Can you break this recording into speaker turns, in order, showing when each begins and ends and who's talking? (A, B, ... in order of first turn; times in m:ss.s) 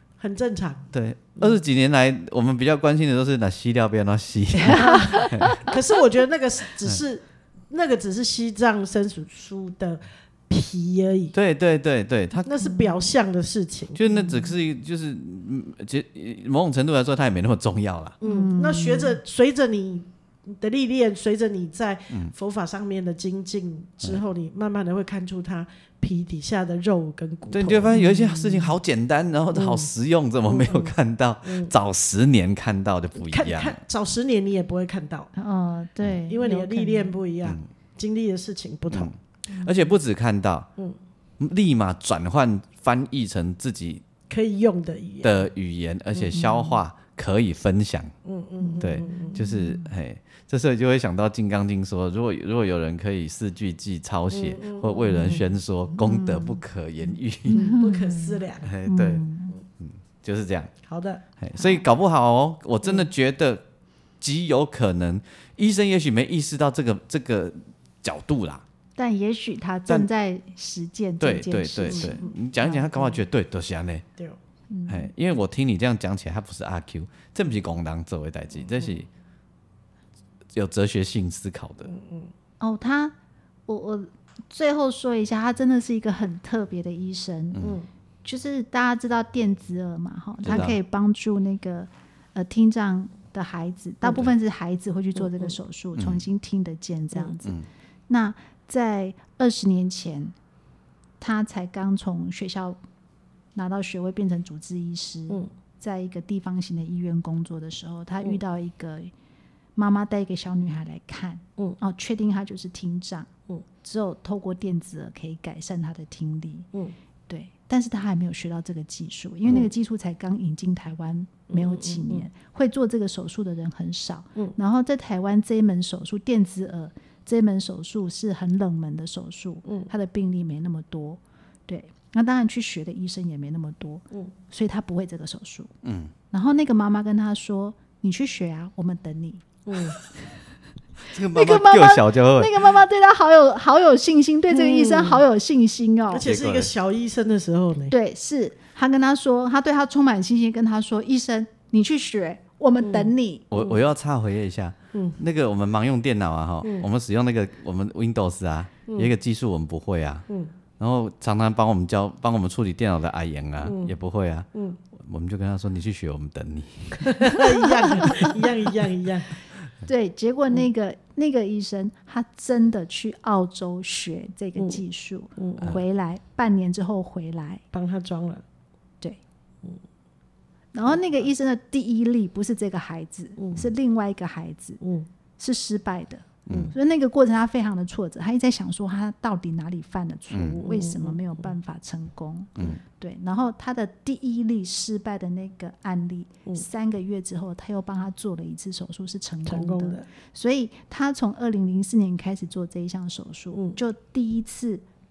0:00.2-0:01.6 A
0:00.9-0:05.6 B
0:04.7-0:05.6 C
0:04.7-0:11.3 A
0:11.3-0:12.5 B
0:12.5-0:14.0 A
0:12.6-0:13.0 C
0:14.0-0:18.2 B
0:14.1-0:14.5 C
0:18.2-0:28.0 A
0:18.2-0:19.2 C
0:27.5-0:33.8 B
0:27.9-0:28.8 C
0:29.5-0:29.9 A
0:30.5-0:31.7 A
0:33.2-0:35.3 A
0:35.4-0:37.2 C
0:36.3-0:39.1 A
0:38.9-0:40.7 B
0:39.5-0:39.8 C
0:41.4-0:44.0 B
0:44.3-0:45.5 A
0:45.2-0:48.1 B
0:46.3-0:46.8 C
0:48.2-0:49.4 A
0:48.6-0:49.9 C
0:48.8-0:57.6 B
0:54.3-0:55.5 A
0:55.1-0:55.4 C
0:55.9-0:56.6 C
0:57.5-0:59.6 C
0:57.5-0:58.7 A
0:58.6-0:59.2 B
0:59.8-1:00.7 B
1:00.9-1:01.2 A
1:01.4-1:03.6 B
1:01.6-1:01.8 C
1:04.2-1:08.6 B
1:09.0-1:12.9 C
1:11.2-1:14.0 B
1:11.9-1:12.3 A
1:14.7-1:15.1 C
1:14.9-1:19.1 B
1:20.5-1:21.9 B
1:21.9-1:22.3 A
1:22.6-1:23.2 C
1:23.7-1:27.6 C
1:27.5-1:27.8 B
1:27.6-1:27.9 A
1:28.2-1:37.6 C
1:30.4-1:30.8 B
1:35.2-1:35.6 A
1:36.0-1:36.3 B
1:38.1-1:40.4 C
1:41.2-1:42.8 C
1:43.6-1:49.1 C
1:49.8-1:53.3 C
1:53.8-1:56.7 C
1:57.3-2:15.7 C
2:01.5-2:02.3 A
2:15.8-2:16.1 B
2:16.3-2:19.5 C
2:19.7-2:20.0 A
2:21.1-2:22.8 B
2:21.3-2:26.3 C
2:24.5-2:25.2 A
2:26.1-2:27.9 A
2:26.2-2:26.7 B
2:27.9-2:33.4 C
2:32.8-2:33.8 A
2:33.5-2:40.3 B
2:34.9-2:35.2 A
2:38.9-2:39.1 A
2:40.8-2:47.4 B
2:43.6-2:44.0 A
2:44.5-2:44.8 A
2:47.1-2:49.3 A
2:49.8-2:57.6 C
2:55.4-2:55.8 A
2:57.7-2:58.4 A
3:00.7-3:04.8 C
3:03.4-3:03.6 A
3:04.8-3:05.1 A
3:05.4-3:24.9 C
3:06.5-3:06.8 B
3:10.3-3:10.6 B
3:10.6-3:11.5 A
3:19.5-3:20.1 A
3:23.5-3:23.8 A